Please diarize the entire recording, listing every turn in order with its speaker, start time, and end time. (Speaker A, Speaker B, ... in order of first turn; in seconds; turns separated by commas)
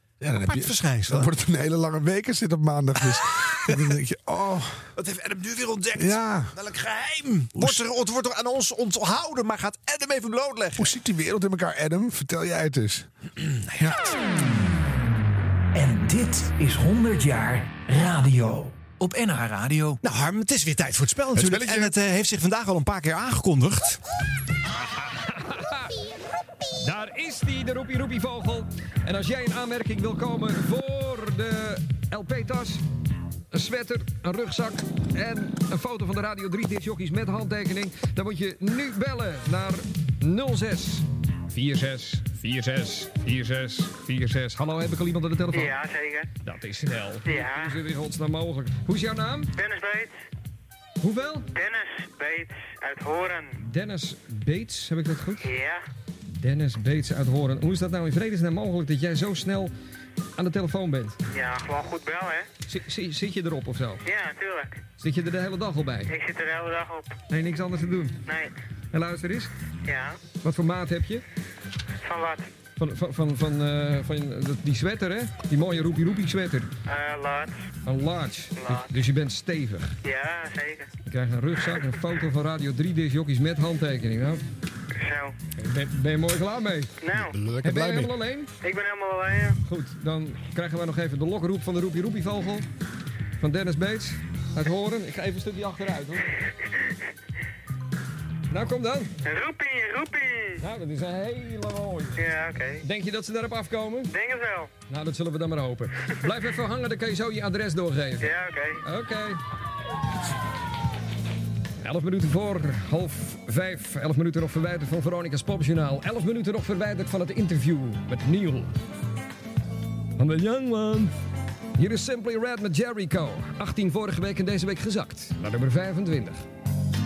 Speaker A: 0.2-4.8, Speaker B: 0.5-1.3, Speaker B: 5.0-10.9, Speaker A: 6.0-6.5, Speaker A: 10.8-13.1, Speaker B: 13.4-14.0, Speaker C: 15.7-20.0, Speaker B: 20.0-24.0, Speaker A: 21.4-21.9, Speaker D: 25.2-25.9, Speaker D: 26.8-32.8, Speaker D: 33.5-45.8, Speaker E: 45.5-46.3, Speaker D: 46.4-49.5, Speaker E: 47.3-47.7, Speaker E: 49.6-50.1, Speaker D: 51.0-51.5, Speaker E: 51.5-53.5, Speaker D: 53.6-55.5, Speaker E: 55.4-55.8, Speaker D: 56.4-59.7, Speaker D: 60.4-61.2, Speaker E: 61.3-62.5, Speaker D: 62.7-64.0, Speaker E: 64.1-64.8, Speaker D: 65.0-66.2, Speaker E: 66.1-67.2, Speaker D: 67.3-68.2, Speaker E: 68.3-68.5, Speaker D: 68.9-69.5, Speaker E: 69.9-70.2, Speaker D: 70.4-71.2, Speaker E: 72.1-72.5, Speaker D: 72.8-76.7, Speaker E: 76.9-77.6, Speaker D: 77.8-80.0, Speaker E: 80.0-80.9, Speaker D: 81.1-84.4, Speaker E: 85.0-85.3, Speaker D: 85.6-86.9, Speaker E: 87.0-87.3, Speaker A: 87.3-88.1, Speaker D: 87.6-88.5, Speaker E: 88.6-89.6, Speaker D: 89.6-92.7, Speaker D: 93.4-96.3, Speaker D: 98.5-99.2, Speaker E: 99.2-100.6, Speaker D: 100.6-102.2, Speaker E: 102.2-102.8, Speaker D: 102.8-104.1, Speaker E: 104.1-104.7, Speaker D: 104.9-108.3, Speaker E: 108.2-108.8, Speaker D: 108.8-109.4, Speaker D: 111.8-118.7, Speaker D: 120.2-121.1, Speaker D: 121.8-126.4